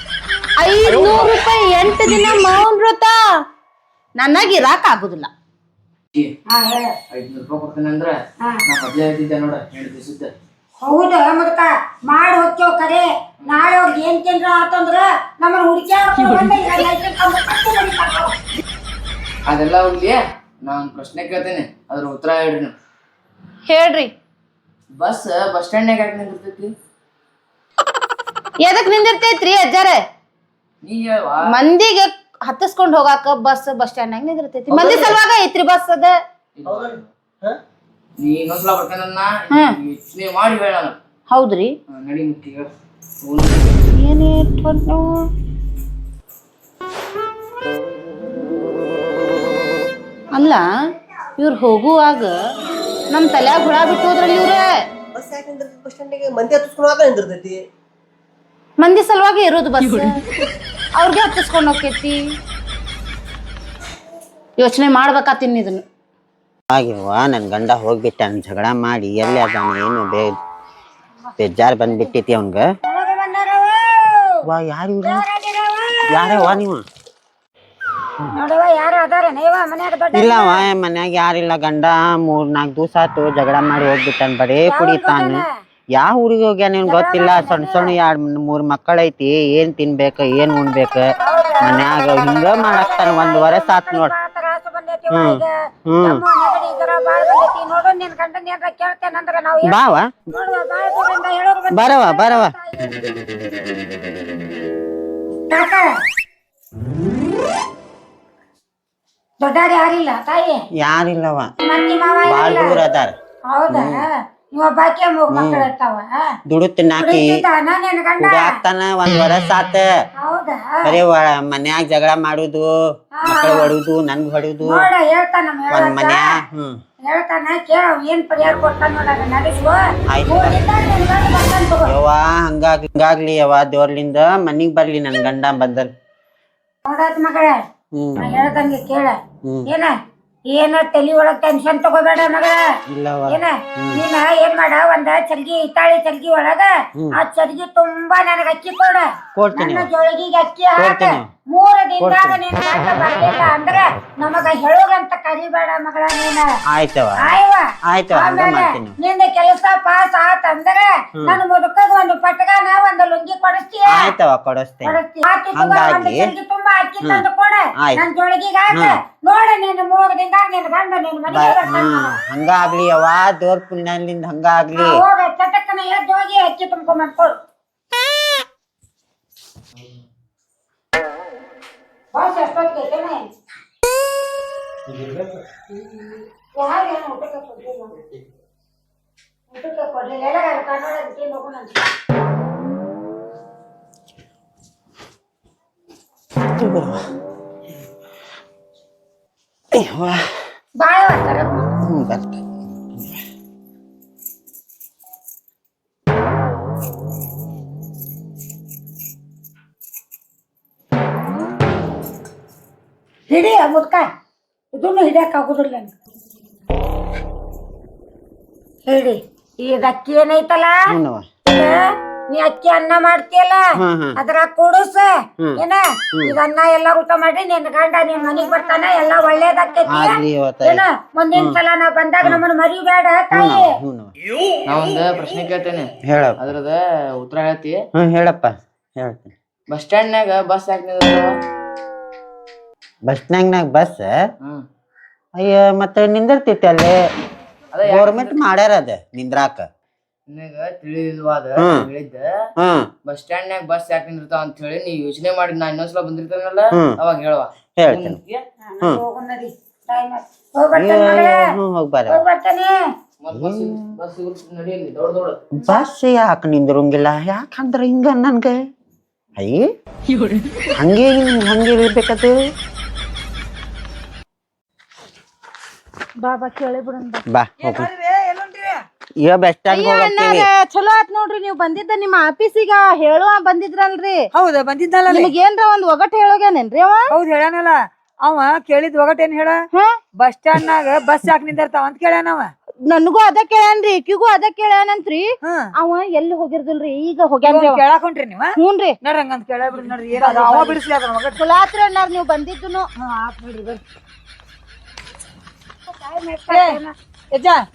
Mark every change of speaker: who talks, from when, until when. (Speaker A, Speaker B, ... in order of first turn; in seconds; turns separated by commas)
Speaker A: 0.6-3.2, Speaker A: 4.2-5.3, Speaker B: 6.5-6.9, Speaker C: 7.1-10.3, Speaker B: 10.8-18.3, Speaker C: 19.5-22.7, Speaker A: 23.7-24.1, Speaker C: 25.0-26.7, Speaker A: 28.6-30.0, Speaker C: 30.8-31.5, Speaker A: 31.4-36.1, Speaker D: 34.7-35.2, Speaker C: 36.6-37.1, Speaker D: 36.6-37.6, Speaker C: 38.2-41.0, Speaker A: 39.5-39.8, Speaker A: 41.3-41.7, Speaker C: 41.9-42.7, Speaker C: 43.2-43.7, Speaker A: 43.9-45.3, Speaker A: 50.3-50.6, Speaker A: 51.4-52.4, Speaker A: 53.1-54.6, Speaker D: 55.1-57.6, Speaker A: 58.8-60.2, Speaker A: 61.0-62.1, Speaker A: 64.6-65.8, Speaker E: 66.7-70.4, Speaker E: 71.4-72.7, Speaker B: 71.9-72.1, Speaker B: 72.8-74.4, Speaker E: 74.4-75.2, Speaker B: 75.0-76.6, Speaker E: 76.1-76.8, Speaker B: 78.3-80.7, Speaker E: 80.1-85.4, Speaker B: 84.7-85.5, Speaker E: 86.0-94.1, Speaker B: 86.8-87.9, Speaker B: 91.2-95.5, Speaker E: 95.1-96.2, Speaker B: 96.0-103.0, Speaker E: 99.6-100.1, Speaker E: 101.7-102.5, Speaker B: 105.5-105.9, Speaker B: 109.4-110.6, Speaker E: 110.7-111.5, Speaker B: 111.6-112.8, Speaker E: 112.2-113.1, Speaker B: 113.5-116.2, Speaker E: 113.7-114.0, Speaker E: 115.3-115.7, Speaker E: 116.5-117.4, Speaker B: 117.0-118.6, Speaker E: 118.2-119.9, Speaker B: 120.2-120.9, Speaker E: 120.8-122.7, Speaker B: 123.2-123.7, Speaker E: 123.2-124.9, Speaker B: 124.6-126.3, Speaker E: 125.7-126.8, Speaker B: 127.0-131.9, Speaker E: 130.1-130.6, Speaker E: 131.8-135.9, Speaker B: 136.8-137.6, Speaker E: 137.9-138.4, Speaker B: 138.2-139.9, Speaker E: 139.4-139.7, Speaker B: 140.5-142.6, Speaker E: 142.9-144.0, Speaker B: 143.2-156.5, Speaker E: 149.3-149.9, Speaker E: 150.8-151.3, Speaker E: 152.0-152.4, Speaker E: 156.7-158.9, Speaker B: 157.2-164.1, Speaker E: 163.9-165.0, Speaker B: 164.8-172.2, Speaker E: 165.5-166.3, Speaker E: 171.3-175.0, Speaker B: 174.8-177.3, Speaker B: 182.1-183.3, Speaker B: 186.5-188.1, Speaker B: 189.5-191.8, Speaker E: 196.5-197.0, Speaker E: 199.7-200.2, Speaker B: 200.8-201.7, Speaker E: 201.8-203.2, Speaker B: 213.3-214.1, Speaker B: 214.7-215.9, Speaker B: 218.9-220.8, Speaker E: 220.9-221.2, Speaker B: 221.5-221.8, Speaker B: 222.3-233.7, Speaker E: 223.8-224.2, Speaker E: 229.8-230.8, Speaker E: 233.3-234.1, Speaker C: 234.7-237.8, Speaker E: 236.0-236.4, Speaker E: 237.9-239.3, Speaker C: 239.7-241.3, Speaker E: 243.1-244.2, Speaker E: 245.3-247.0, Speaker C: 247.7-248.4, Speaker E: 247.8-249.7, Speaker C: 250.3-252.2, Speaker E: 251.6-251.8, Speaker E: 252.6-252.9, Speaker C: 253.1-258.4, Speaker E: 256.7-257.0, Speaker E: 257.8-258.2, Speaker B: 258.7-261.5, Speaker E: 260.7-262.2, Speaker B: 262.1-262.8, Speaker C: 263.2-265.4, Speaker E: 263.3-263.9, Speaker E: 265.5-268.7, Speaker E: 269.4-269.7, Speaker E: 270.7-272.4, Speaker B: 276.3-276.8, Speaker A: 276.4-277.2, Speaker E: 277.3-277.9, Speaker F: 277.6-278.8, Speaker E: 279.2-280.5, Speaker A: 279.7-284.3, Speaker F: 284.3-285.3, Speaker A: 285.1-287.1, Speaker F: 287.1-289.6, Speaker F: 290.2-292.5, Speaker A: 292.9-297.8, Speaker F: 295.4-295.7, Speaker F: 297.4-301.4, Speaker A: 298.6-299.0, Speaker B: 300.3-300.7, Speaker A: 301.4-302.9, Speaker F: 303.0-303.8, Speaker B: 305.9-306.9, Speaker F: 306.5-306.8, Speaker F: 307.3-307.6